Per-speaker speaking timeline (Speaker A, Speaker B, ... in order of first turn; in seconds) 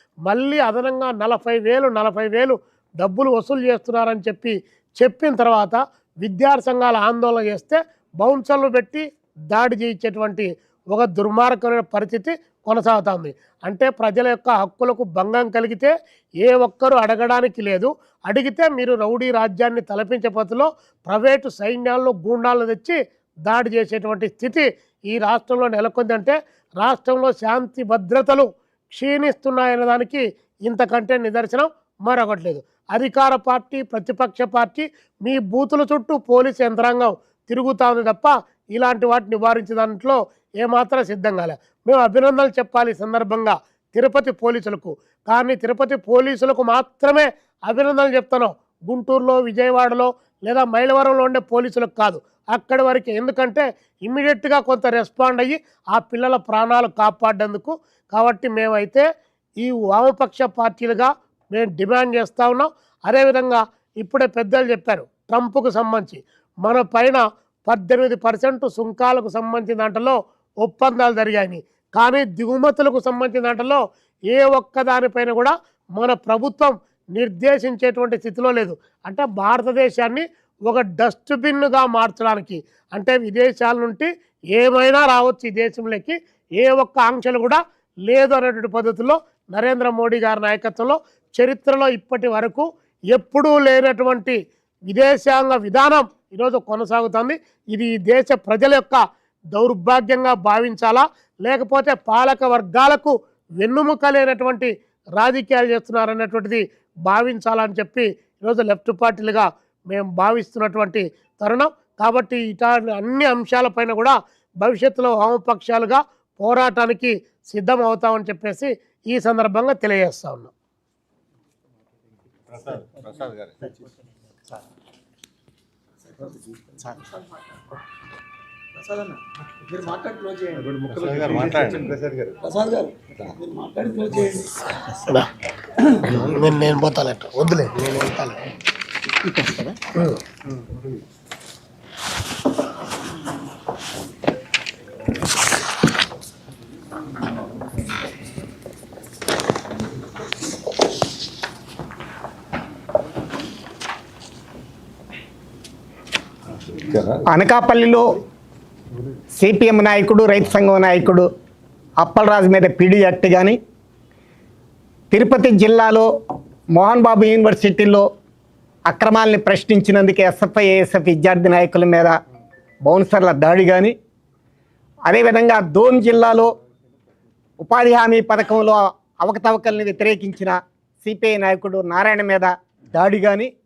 Speaker A: 0.3-59.0, 59.6-99.0, 99.5-120.5, 134.9-135.3, 136.1-138.4
Speaker B: 122.5-123.7, 130.8-132.5, 136.1-136.4, 156.8-157.2
Speaker C: 129.8-130.6, 132.5-134.4, 139.2-139.8
Speaker D: 157.3-158.2, 159.4-161.3, 162.0-163.6, 165.1-166.1, 166.7-168.0, 168.9-172.1, 172.8-173.9, 175.1-176.5, 177.6-183.5